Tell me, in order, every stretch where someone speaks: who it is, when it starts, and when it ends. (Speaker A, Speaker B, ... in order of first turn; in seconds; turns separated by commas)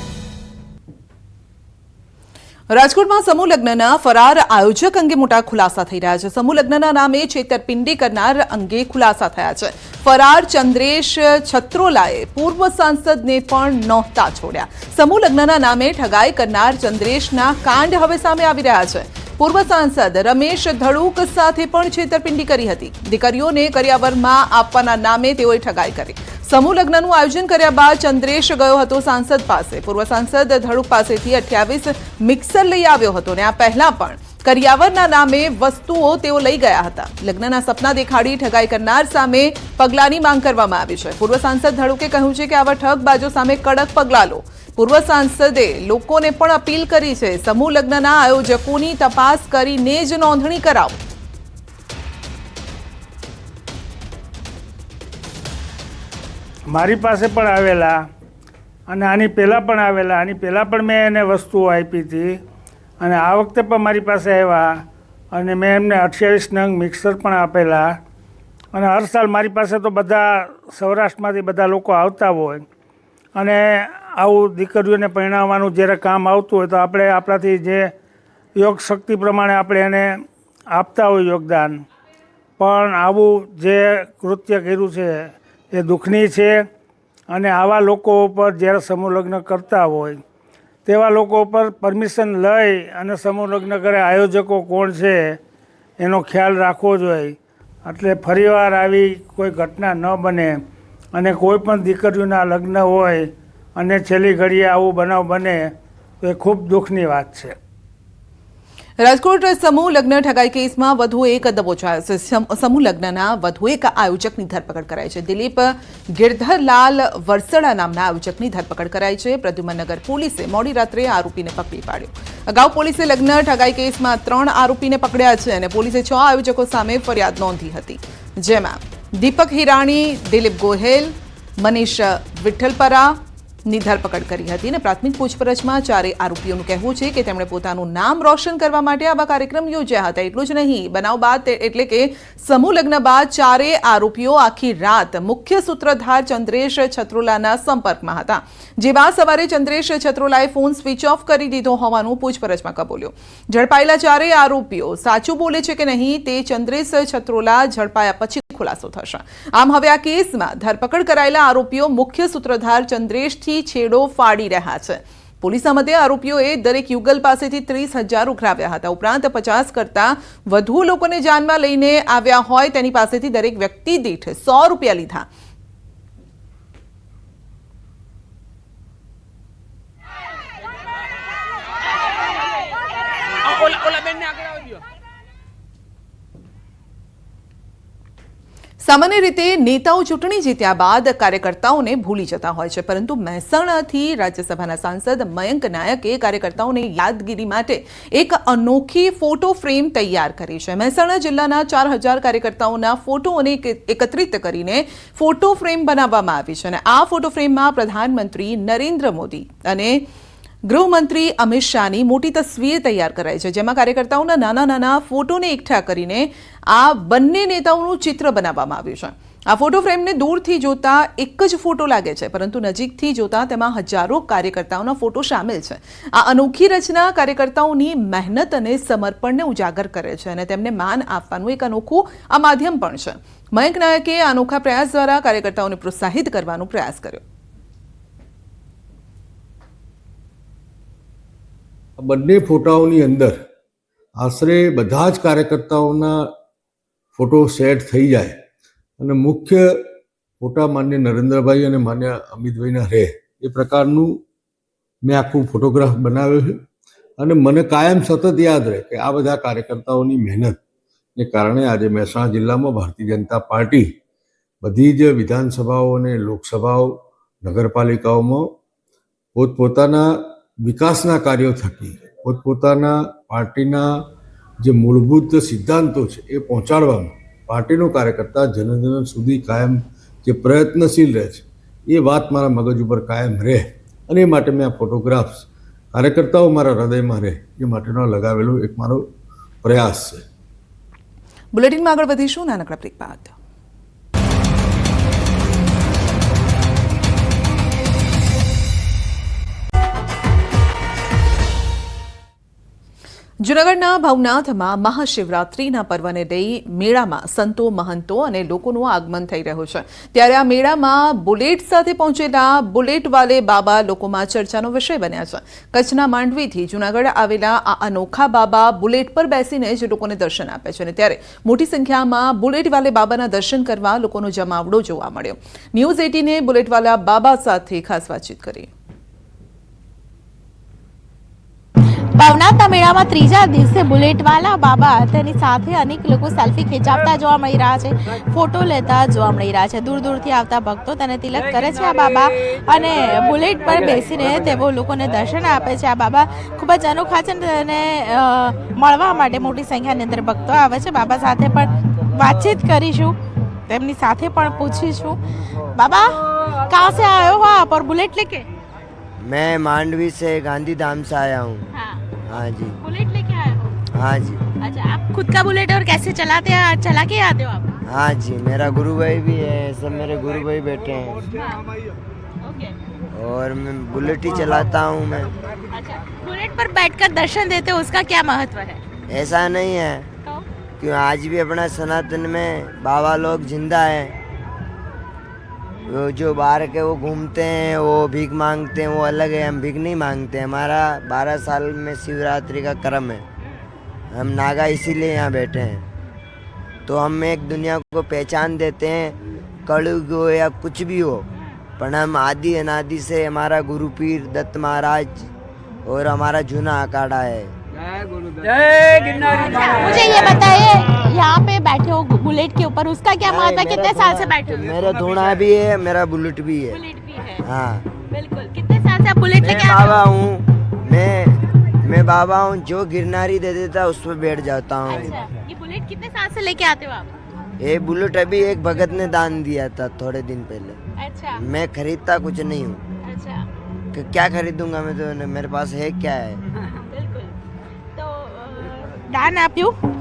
Speaker A: 2.7-51.0, Speaker B: 56.7-58.0, Speaker B: 58.9-62.4, Speaker B: 63.0-68.0, Speaker B: 68.7-72.6, Speaker B: 73.4-77.9, Speaker B: 78.6-80.1, Speaker B: 80.7-81.8, Speaker B: 82.6-86.6, Speaker B: 87.3-90.2, Speaker B: 90.8-95.4, Speaker B: 96.0-100.6, Speaker B: 101.1-107.5, Speaker A: 109.0-175.3, Speaker A: 188.8-210.0, Speaker A: 210.7-237.2, Speaker C: 242.0-243.4, Speaker C: 244.2-246.3, Speaker C: 247.1-248.4, Speaker C: 249.0-254.2, Speaker C: 255.0-256.6, Speaker C: 257.2-260.6, Speaker C: 261.2-263.9, Speaker C: 264.6-268.5, Speaker C: 269.3-274.1, Speaker C: 274.6-289.1, Speaker C: 289.6-290.2, Speaker A: 291.5-293.3, Speaker A: 303.4-328.7, Speaker D: 332.2-353.1, Speaker D: 353.7-355.2, Speaker D: 355.7-356.1, Speaker D: 356.7-358.4, Speaker E: 359.2-361.7, Speaker D: 361.7-362.0, Speaker E: 362.3-362.8, Speaker D: 362.8-363.8, Speaker E: 363.9-364.4, Speaker D: 364.6-367.7, Speaker E: 367.9-371.2, Speaker D: 371.3-371.6, Speaker D: 372.4-372.8, Speaker E: 373.1-375.3, Speaker D: 375.7-378.8, Speaker E: 379.1-380.1, Speaker E: 380.8-384.1, Speaker E: 385.9-393.2, Speaker E: 394.1-395.9, Speaker E: 396.9-399.1, Speaker E: 399.7-401.2, Speaker E: 401.8-405.3, Speaker E: 405.8-407.5, Speaker D: 408.8-414.7, Speaker E: 413.3-416.8, Speaker D: 416.7-417.4, Speaker E: 417.4-417.9, Speaker D: 418.1-420.0, Speaker E: 419.4-425.1, Speaker D: 424.9-427.1, Speaker E: 427.6-430.8, Speaker D: 431.0-431.4, Speaker E: 431.4-432.8, Speaker D: 433.0-433.4, Speaker E: 433.9-436.4, Speaker D: 436.7-437.3, Speaker D: 437.9-439.7